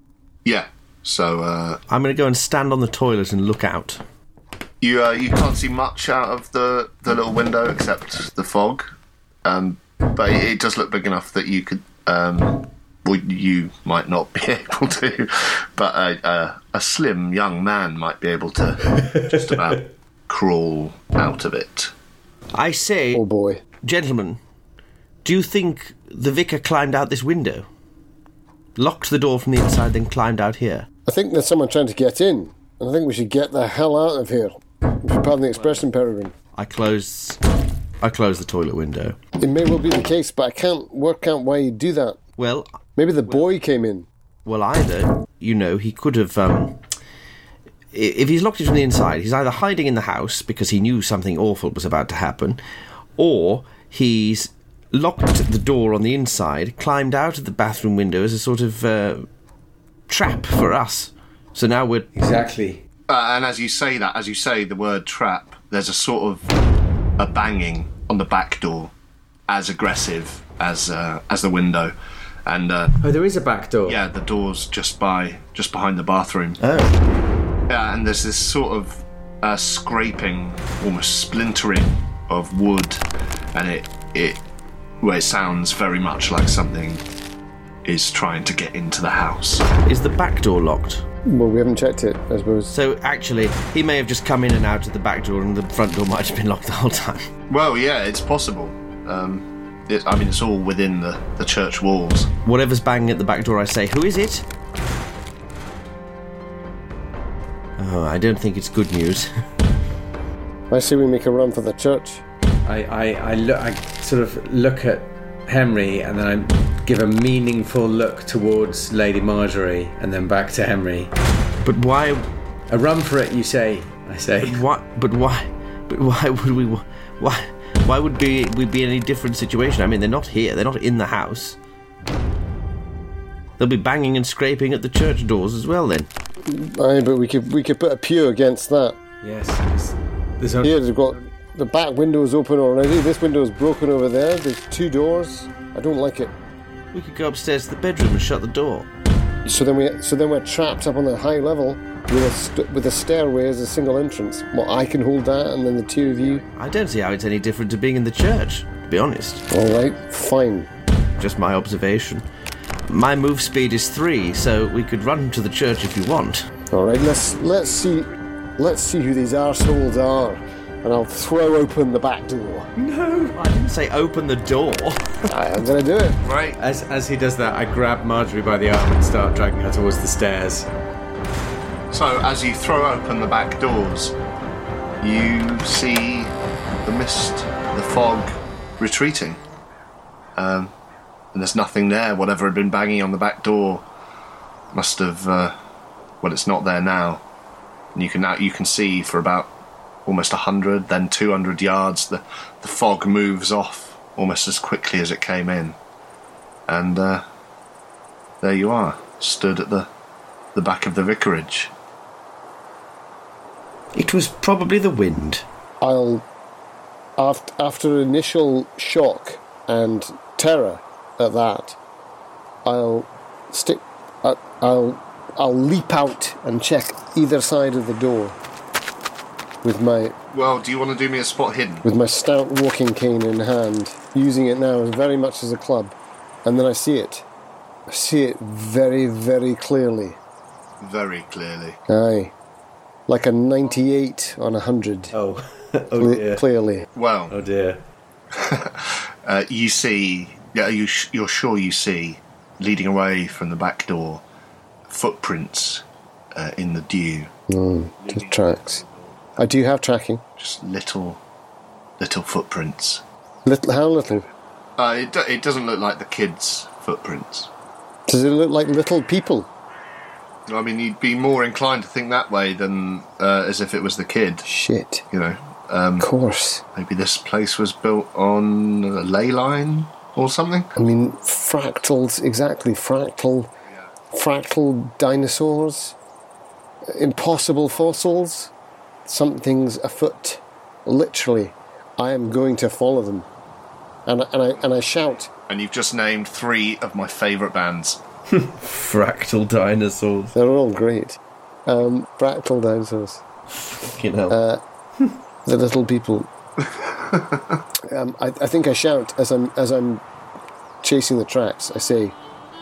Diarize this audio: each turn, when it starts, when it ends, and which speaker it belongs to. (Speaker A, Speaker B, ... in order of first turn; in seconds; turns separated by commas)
Speaker A: 0.5-1.8, Speaker B: 1.9-4.0, Speaker A: 4.8-8.9, Speaker A: 9.4-21.9, Speaker B: 22.5-24.4, Speaker C: 23.1-23.6, Speaker B: 25.2-27.7, Speaker B: 28.8-30.9, Speaker C: 31.1-36.3, Speaker B: 36.5-37.4, Speaker B: 38.0-39.2, Speaker C: 39.4-42.2, Speaker B: 42.4-42.8, Speaker C: 43.0-44.1, Speaker B: 44.5-46.8, Speaker B: 47.9-52.6, Speaker B: 53.2-59.3, Speaker B: 60.1-62.1, Speaker D: 62.1-62.8, Speaker A: 63.1-66.5, Speaker A: 67.2-68.9, Speaker A: 69.5-71.9, Speaker A: 72.5-73.0, Speaker D: 73.0-74.0, Speaker A: 73.9-76.6, Speaker B: 76.6-77.0, Speaker A: 77.7-83.0, Speaker A: 83.5-84.4, Speaker A: 85.0-87.0, Speaker A: 87.8-89.7, Speaker B: 89.8-91.0, Speaker C: 91.3-92.7, Speaker B: 92.7-97.3, Speaker A: 97.5-102.3, Speaker B: 102.5-104.5, Speaker B: 107.8-109.3, Speaker C: 110.7-112.2, Speaker D: 112.7-121.1, Speaker B: 121.6-122.3, Speaker D: 122.7-124.6, Speaker B: 124.4-131.6, Speaker B: 133.6-136.1, Speaker C: 136.4-139.0, Speaker D: 139.2-140.8, Speaker C: 140.6-146.3, Speaker B: 146.9-148.9, Speaker C: 149.5-156.4, Speaker B: 156.4-159.4, Speaker C: 159.5-160.7, Speaker B: 161.2-162.3, Speaker B: 162.9-166.5, Speaker C: 166.7-172.7, Speaker B: 172.8-175.3, Speaker C: 175.3-176.2, Speaker A: 176.2-176.6, Speaker D: 176.6-180.7, Speaker A: 181.9-184.1, Speaker A: 185.0-189.4, Speaker A: 190.4-190.7, Speaker A: 191.3-193.8, Speaker A: 194.7-195.6, Speaker A: 196.2-197.2, Speaker A: 197.9-199.5, Speaker A: 200.1-205.8, Speaker A: 206.7-207.2, Speaker A: 208.4-209.9, Speaker A: 210.6-211.7, Speaker B: 213.9-215.4, Speaker C: 215.8-216.3, Speaker C: 217.2-221.8, Speaker C: 222.7-228.4, Speaker C: 229.6-230.2, Speaker A: 230.3-231.9, Speaker C: 231.8-237.3, Speaker C: 237.9-240.2, Speaker A: 240.8-241.8, Speaker C: 241.9-242.3, Speaker C: 243.1-245.1, Speaker D: 245.1-246.4, Speaker C: 246.0-246.9, Speaker A: 246.9-247.3, Speaker D: 247.3-247.8, Speaker A: 248.3-254.2, Speaker A: 254.9-257.3, Speaker C: 257.5-258.8, Speaker A: 258.1-258.9, Speaker C: 259.4-260.2, Speaker A: 260.4-261.2, Speaker A: 262.0-263.0, Speaker C: 263.5-264.3, Speaker A: 264.8-267.5, Speaker C: 268.1-269.5, Speaker A: 270.5-274.4, Speaker C: 274.4-275.0, Speaker A: 275.1-276.1, Speaker C: 276.0-276.6, Speaker A: 276.7-280.7, Speaker C: 280.8-283.5, Speaker C: 284.1-286.0, Speaker C: 286.9-288.5, Speaker C: 289.1-293.3, Speaker C: 294.1-295.3, Speaker A: 295.5-298.0, Speaker B: 298.6-300.3, Speaker C: 300.3-303.2, Speaker B: 303.6-304.4, Speaker C: 304.3-304.6, Speaker C: 305.4-306.3, Speaker A: 306.7-307.6, Speaker C: 307.8-310.0, Speaker C: 310.8-312.2